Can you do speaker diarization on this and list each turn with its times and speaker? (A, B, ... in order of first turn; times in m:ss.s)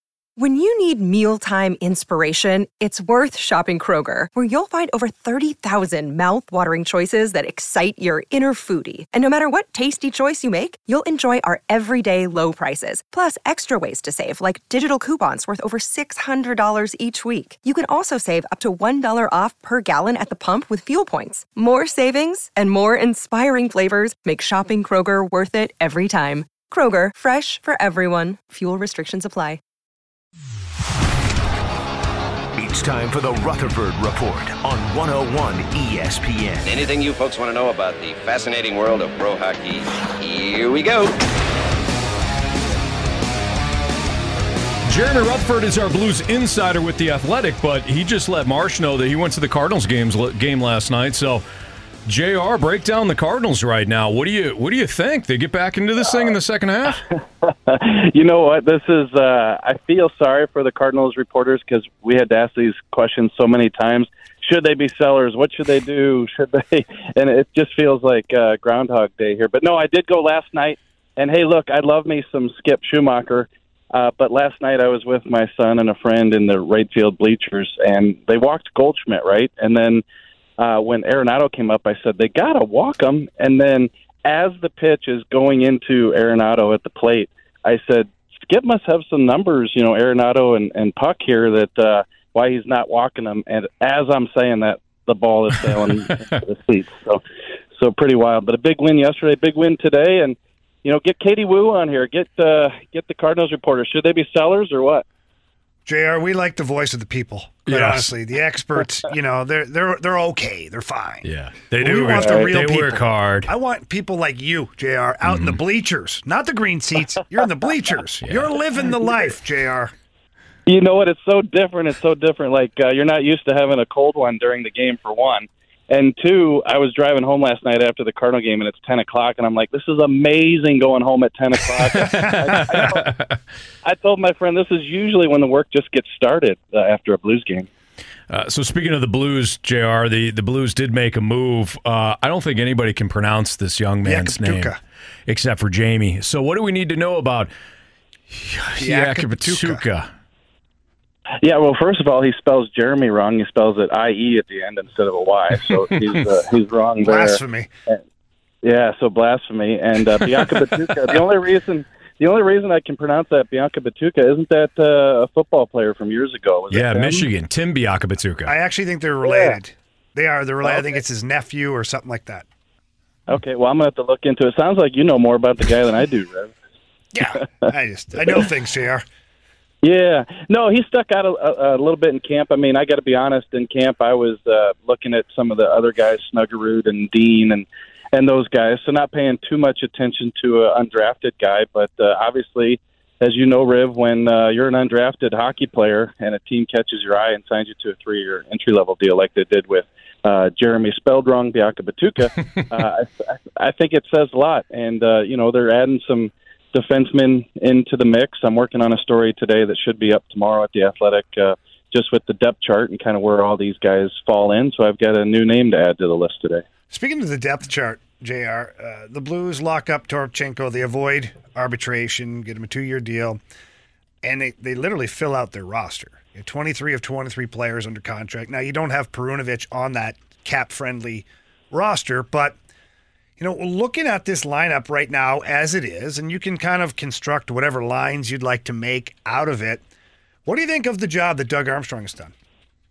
0:00.4-0:29.6 A
0:32.6-0:36.8 B
0:36.6-0:41.1 C
0:44.9-0:51.4 D
0:52.1-0:57.0 D
0:57.1-1:20.0 E
1:20.6-1:37.2 E
1:37.7-1:45.0 E
1:45.8-1:59.9 F
1:47.7-1:48.1 D
1:51.2-1:53.5 D
1:52.2-1:52.5 E
1:55.2-1:55.6 D
1:58.2-1:58.5 D
2:00.6-2:13.1 E
2:11.9-2:13.1 D
2:13.8-2:17.7 E
2:18.3-2:27.5 D
2:24.0-2:24.8 F
2:28.3-2:30.1 D
2:28.8-2:29.8 F
2:31.4-2:38.0 E
2:37.0-2:37.7 F
2:38.6-2:47.3 E
2:46.7-2:48.5 D
2:48.4-2:52.4 F
2:49.2-2:49.6 E
2:50.6-2:51.0 E
2:53.3-2:56.6 E
2:57.1-2:59.0 F
2:59.8-3:36.6 E
3:36.9-3:43.4 F
3:44.2-3:52.6 F
3:53.4-3:59.8 F
4:00.4-4:02.3 F